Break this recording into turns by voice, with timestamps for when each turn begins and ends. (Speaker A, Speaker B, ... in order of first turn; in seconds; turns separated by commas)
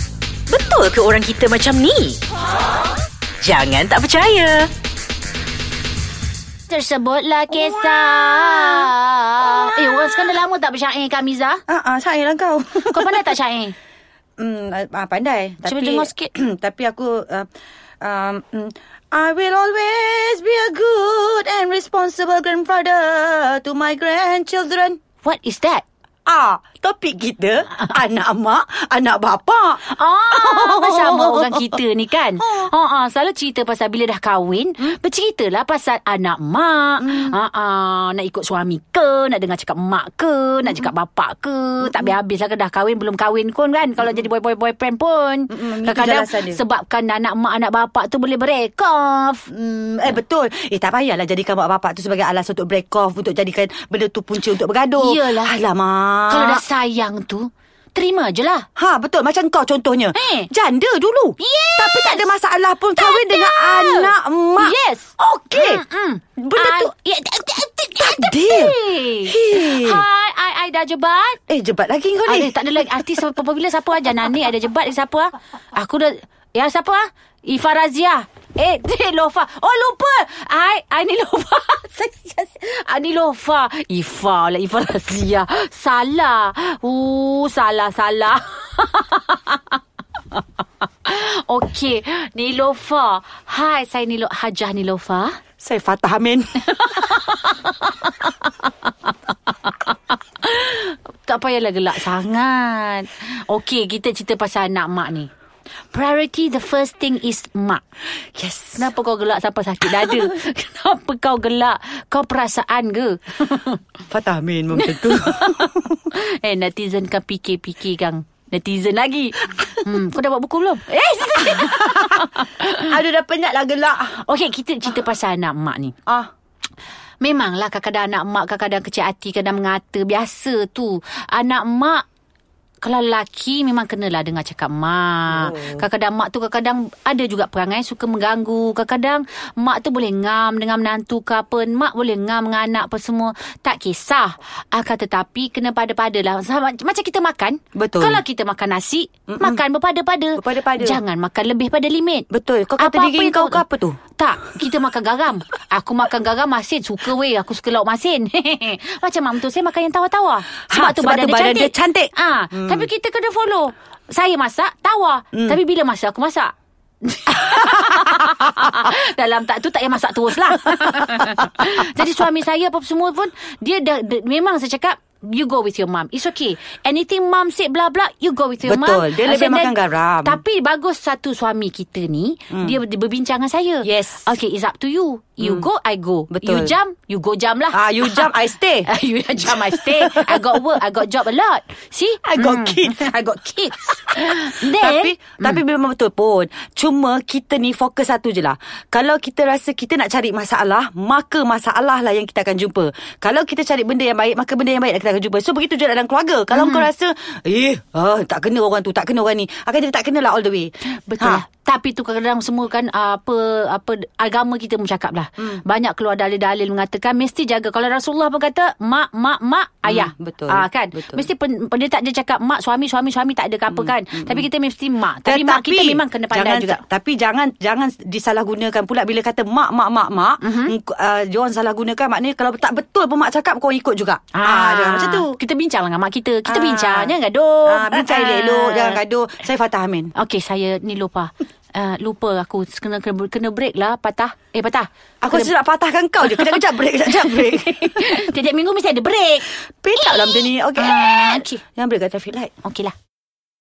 Speaker A: 0.5-2.2, Speaker A: 3.4-4.7, Speaker B: 6.7-11.6, Speaker C: 8.2-8.6, Speaker C: 11.7-13.4, Speaker B: 12.8-13.7, Speaker C: 14.4-17.5, Speaker B: 15.7-16.3, Speaker C: 18.0-25.0, Speaker B: 25.2-25.8, Speaker C: 26.2-31.8, Speaker B: 29.8-49.5, Speaker C: 32.4-32.7, Speaker C: 37.0-37.4, Speaker C: 40.6-40.9, Speaker C: 41.8-42.2, Speaker C: 44.0-44.3, Speaker C: 45.5-46.6, Speaker C: 49.5-56.6, Speaker B: 55.0-55.5, Speaker B: 56.3-58.7, Speaker C: 58.8-65.8, Speaker B: 60.1-60.5, Speaker B: 61.4-62.3, Speaker B: 63.0-71.4, Speaker C: 66.4-66.9, Speaker C: 68.0-70.1, Speaker C: 71.5-73.3, Speaker B: 72.3-89.8, Speaker B: 91.0-95.4, Speaker C: 95.6-96.6, Speaker B: 96.6-105.3, Speaker B: 105.9-107.8, Speaker C: 108.3-108.9, Speaker B: 108.8-113.8, Speaker C: 109.9-110.3, Speaker C: 114.1-116.0, Speaker B: 114.7-123.0, Speaker C: 121.4-124.2, Speaker B: 124.2-125.9, Speaker B: 127.2-132.0, Speaker B: 132.8-152.3, Speaker C: 135.3-135.8, Speaker C: 147.8-148.2, Speaker C: 149.3-149.6, Speaker C: 150.3-151.0, Speaker C: 152.3-154.0, Speaker B: 152.8-153.6, Speaker B: 154.2-195.6, Speaker C: 160.7-162.9, Speaker C: 165.3-165.6, Speaker C: 167.3-168.8, Speaker C: 170.8-171.7, Speaker C: 178.6-180.4, Speaker C: 182.5-182.8, Speaker C: 183.8-184.3, Speaker C: 185.4-185.7, Speaker C: 186.3-186.7, Speaker C: 187.7-188.9, Speaker C: 189.4-190.9, Speaker C: 192.2-193.2, Speaker C: 194.1-211.4, Speaker B: 206.5-206.9, Speaker B: 211.1-226.8, Speaker C: 219.8-221.3, Speaker C: 223.7-224.5, Speaker C: 225.2-235.4, Speaker B: 230.4-230.8, Speaker B: 234.3-239.0, Speaker C: 236.5-237.2, Speaker C: 237.7-240.1, Speaker B: 240.2-245.5, Speaker C: 245.2-248.2, Speaker B: 246.2-251.6, Speaker C: 249.8-252.5, Speaker B: 252.6-252.9